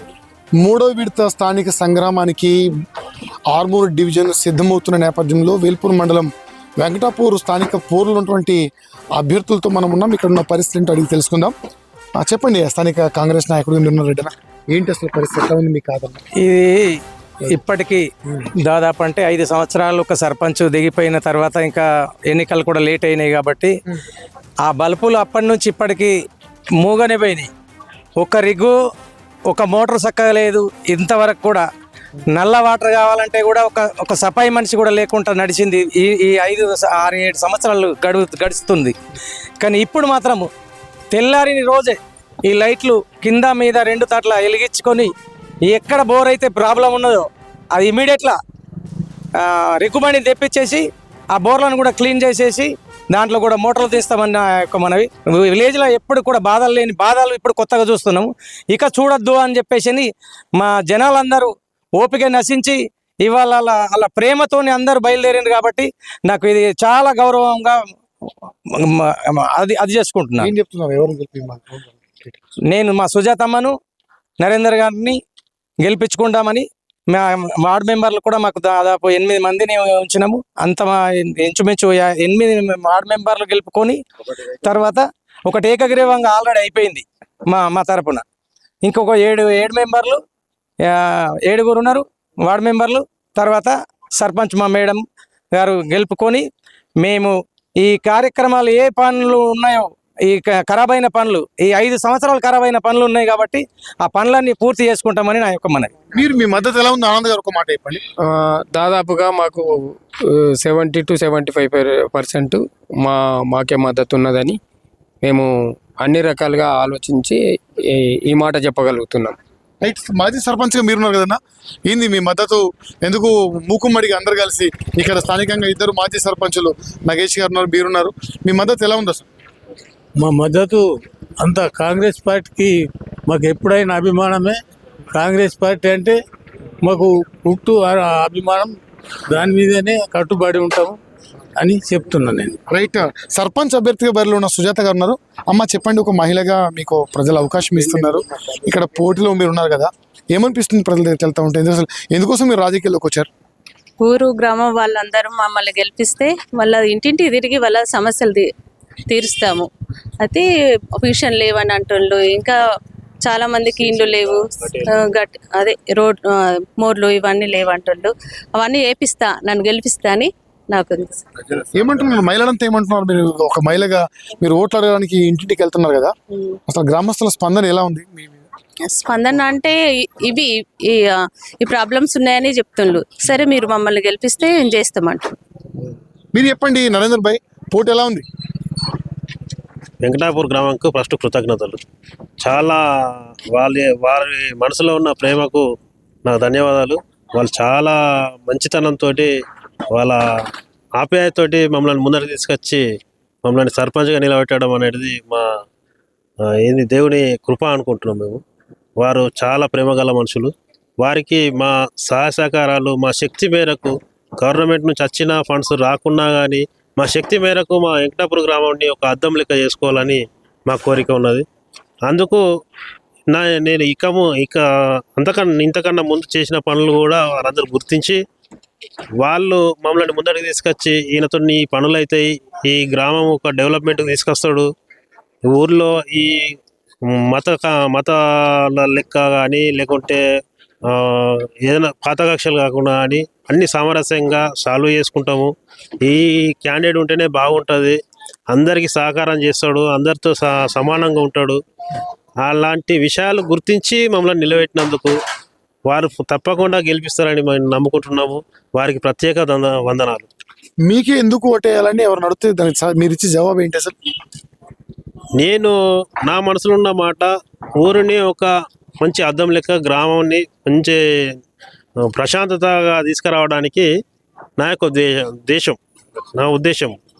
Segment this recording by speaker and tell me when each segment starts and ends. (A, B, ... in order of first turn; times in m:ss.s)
0:00.6-0:02.5 A
0:03.5-0:06.3 A
0:06.8-0:08.6 A
0:09.2-0:11.5 A
0:12.2-0:16.2 A
0:16.4-0:23.7 B
0:24.6-0:26.1 B
0:26.8-0:27.5 B
0:28.2-0:28.7 B
0:29.5-0:31.6 B
0:32.3-0:38.9 B
0:39.6-0:40.5 B
0:41.1-0:42.0 B
0:42.5-0:45.1 B
0:45.7-0:48.4 B
0:49.4-1:10.5 B
1:10.4-1:12.4 A
1:12.7-1:13.7 B
1:14.4-1:15.2 B
1:15.8-1:24.0 B
1:24.6-1:28.2 B
1:28.8-1:30.2 B
1:30.8-1:35.0 B
1:35.6-1:36.4 B
1:37.0-1:45.9 B
1:46.1-1:48.0 A
1:48.2-1:54.6 C
1:55.2-1:57.4 C
1:57.9-1:59.4 C
1:59.8-2:09.3 A
2:10.2-2:10.8 D
2:11.4-2:12.7 D
2:13.3-2:14.6 D
2:15.1-2:16.2 D
2:16.8-2:18.7 D
2:19.3-2:21.0 D
2:21.6-2:22.6 D
2:22.7-2:33.3 A
2:34.0-2:38.5 E
2:39.1-2:39.7 E
2:40.2-2:40.4 E
2:41.0-2:42.6 E
2:43.2-2:51.2 E
2:43.8-2:44.8 F
2:51.7-2:56.1 A
2:56.7-2:58.4 A
2:58.8-3:05.3 E
3:06.3-3:08.2 A
3:10.0-3:11.8 F
3:12.4-3:12.8 F
3:13.5-3:15.6 F
3:16.2-3:19.3 F
3:19.9-3:20.2 F
3:21.0-3:22.8 F
3:23.4-3:25.4 F
3:26.6-3:28.4 F
3:29.0-3:41.4 F
3:42.1-3:42.4 F
3:43.3-3:44.6 F
3:45.2-3:48.2 F
3:49.2-3:54.7 F
3:55.5-3:56.5 F
3:57.0-4:00.2 F
4:00.9-4:08.0 F
4:08.5-4:11.6 F
4:12.4-4:15.2 F
4:15.9-4:20.3 F
4:20.8-4:23.9 A
4:25.4-4:31.0 F
4:32.0-4:33.9 F
4:34.6-4:35.8 F
4:36.4-4:37.0 F